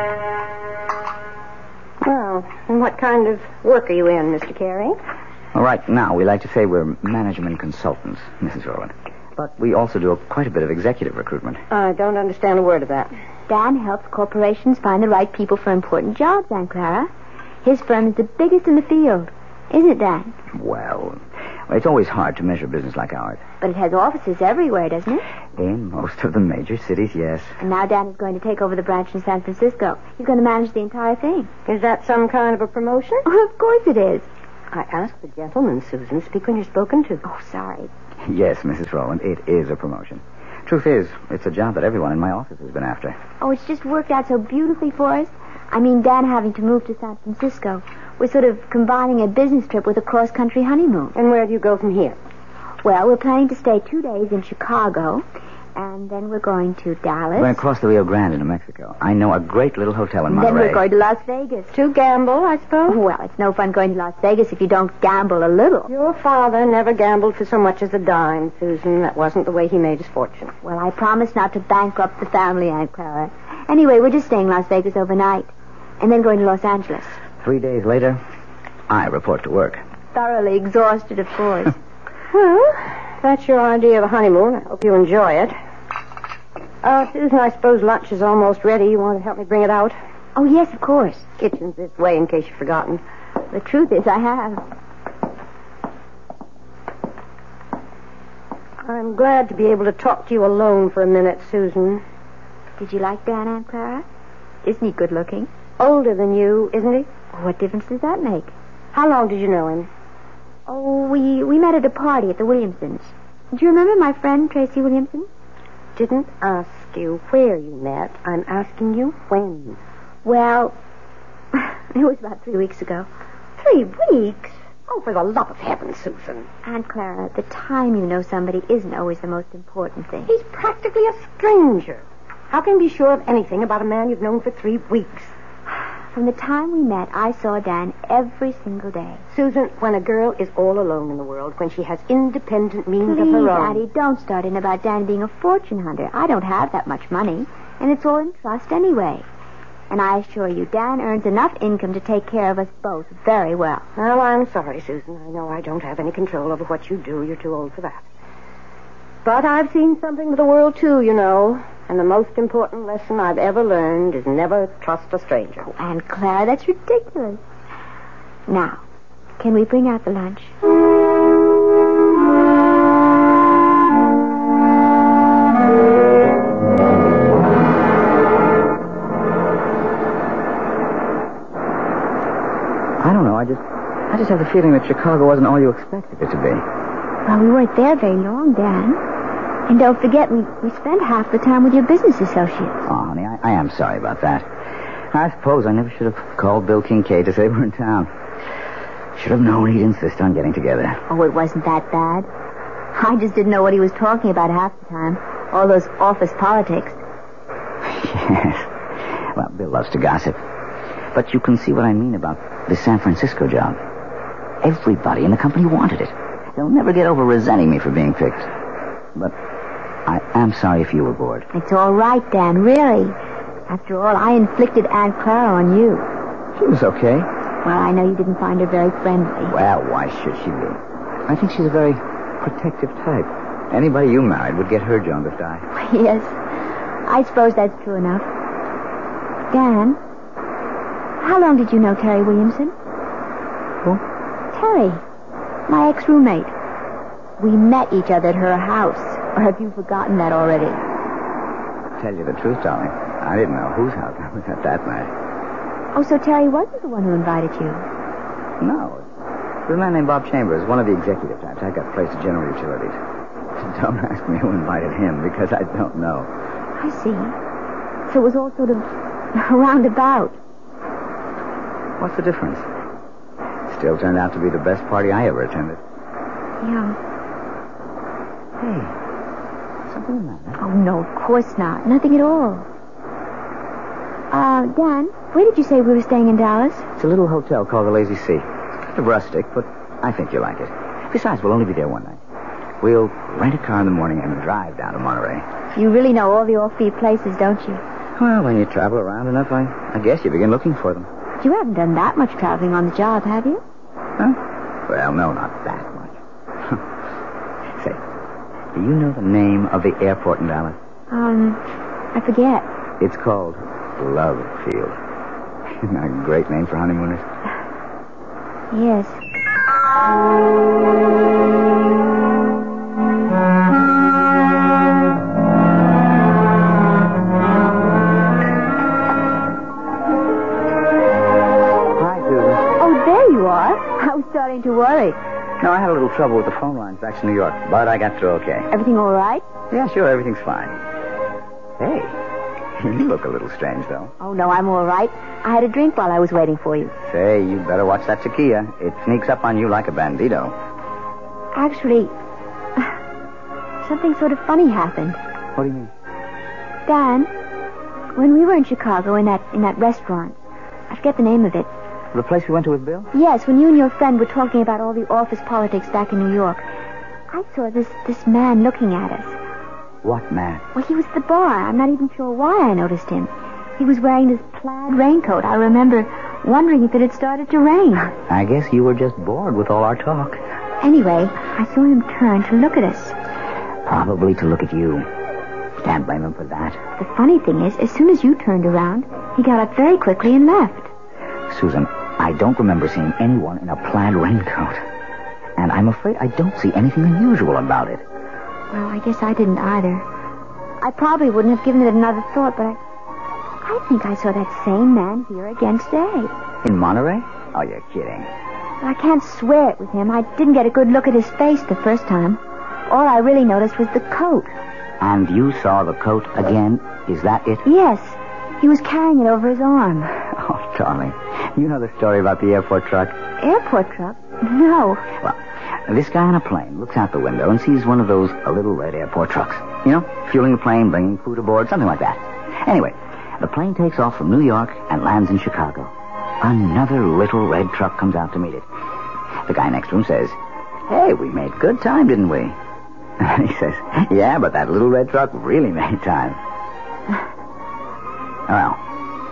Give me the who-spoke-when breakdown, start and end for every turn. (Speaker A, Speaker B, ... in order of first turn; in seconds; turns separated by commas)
Speaker A: 2.0-5.0, Speaker B: 5.5-11.6, Speaker A: 11.7-13.1, Speaker C: 13.5-17.1, Speaker C: 17.6-20.3, Speaker B: 20.5-23.4, Speaker C: 23.6-25.2, Speaker B: 25.6-27.6, Speaker C: 27.6-31.5, Speaker A: 31.7-33.2, Speaker C: 33.2-34.3, Speaker A: 34.7-37.2, Speaker C: 37.2-37.9, Speaker B: 38.2-43.2, Speaker C: 43.4-51.1, Speaker A: 51.1-52.2, Speaker C: 52.8-57.6, Speaker B: 57.3-60.8, Speaker C: 60.3-61.7, Speaker A: 61.7-63.0, Speaker C: 62.9-65.9, Speaker A: 65.9-70.5, Speaker C: 70.6-77.2, Speaker B: 77.4-78.2, Speaker B: 78.9-79.8, Speaker C: 80.1-81.8, Speaker A: 82.3-85.5, Speaker A: 86.8-90.0, Speaker C: 90.3-91.3, Speaker A: 91.4-93.0, Speaker C: 93.5-94.7, Speaker A: 98.8-102.0, Speaker C: 102.8-104.0, Speaker C: 104.6-105.5, Speaker A: 105.8-107.1, Speaker C: 107.3-108.5, Speaker A: 108.9-109.9, Speaker C: 110.7-115.3, Speaker A: 116.0-119.8, Speaker C: 120.2-120.8, Speaker C: 121.5-123.1, Speaker C: 123.6-124.6, Speaker A: 124.9-126.5, Speaker C: 126.6-130.3, Speaker A: 130.3-135.3, Speaker C: 136.1-139.2, Speaker A: 139.3-143.8, Speaker C: 143.0-149.2, Speaker C: 149.9-153.8, Speaker A: 154.0-158.0, Speaker A: 159.2-165.7, Speaker C: 165.6-167.4, Speaker C: 168.5-168.8, Speaker C: 169.4-170.5, Speaker B: 183.0-186.7, Speaker C: 187.2-189.0, Speaker C: 189.7-192.8, Speaker B: 192.9-194.5, Speaker B: 195.1-198.1, Speaker B: 199.1-201.0, Speaker C: 201.1-202.3, Speaker C: 202.9-207.0, Speaker B: 207.8-210.4, Speaker B: 211.1-213.8, Speaker B: 214.6-218.5, Speaker B: 220.1-221.5, Speaker C: 221.5-223.2, Speaker C: 223.7-226.1, Speaker B: 226.6-227.3, Speaker C: 227.6-229.5, Speaker B: 229.5-235.7, Speaker C: 235.7-236.4, Speaker C: 237.1-238.3, Speaker C: 239.5-240.0, Speaker C: 241.2-242.7, Speaker C: 244.5-245.0, Speaker C: 245.7-246.5, Speaker C: 247.4-250.8, Speaker B: 252.0-255.1, Speaker C: 255.9-257.8, Speaker B: 258.6-259.0, Speaker B: 259.6-263.0, Speaker B: 263.5-266.3, Speaker C: 266.8-267.4, Speaker C: 268.1-270.4, Speaker B: 272.0-272.6, Speaker B: 273.7-275.8, Speaker C: 276.6-277.0, Speaker B: 278.6-278.9, Speaker B: 279.9-280.6, Speaker C: 280.6-282.7, Speaker C: 284.3-286.9, Speaker B: 287.0-292.2, Speaker B: 292.8-295.4, Speaker C: 295.8-297.8, Speaker B: 298.2-301.1, Speaker C: 301.4-303.6, Speaker B: 304.2-306.8, Speaker B: 307.7-308.0, Speaker B: 308.7-310.8, Speaker C: 311.1-312.7, Speaker B: 313.0-315.0, Speaker B: 315.8-317.2, Speaker C: 318.7-319.2, Speaker B: 331.9-332.6, Speaker C: 332.8-335.2, Speaker B: 335.6-338.7, Speaker C: 338.7-339.4, Speaker B: 339.7-340.8, Speaker B: 341.8-342.2, Speaker B: 342.8-344.1, Speaker C: 344.2-346.9, Speaker B: 347.0-350.5, Speaker C: 351.5-352.1, Speaker C: 353.8-355.2, Speaker B: 355.5-355.9, Speaker C: 356.9-357.3, Speaker C: 358.1-360.4, Speaker C: 360.9-361.7, Speaker B: 362.1-363.1, Speaker C: 363.1-366.6, Speaker C: 367.3-369.4, Speaker B: 370.0-370.6, Speaker C: 370.7-378.1, Speaker B: 378.2-380.4, Speaker C: 380.8-383.1, Speaker B: 383.8-385.1, Speaker B: 385.8-386.8, Speaker C: 387.0-390.9, Speaker B: 391.5-394.8, Speaker B: 395.6-398.0, Speaker C: 398.7-400.1, Speaker C: 400.8-402.8, Speaker C: 403.6-406.3, Speaker B: 406.6-408.3, Speaker C: 408.8-414.5, Speaker B: 415.0-417.6, Speaker C: 417.6-420.1, Speaker B: 420.2-423.2, Speaker C: 423.4-425.1, Speaker B: 425.2-438.6, Speaker B: 439.4-442.6, Speaker B: 443.2-446.4, Speaker B: 448.5-448.9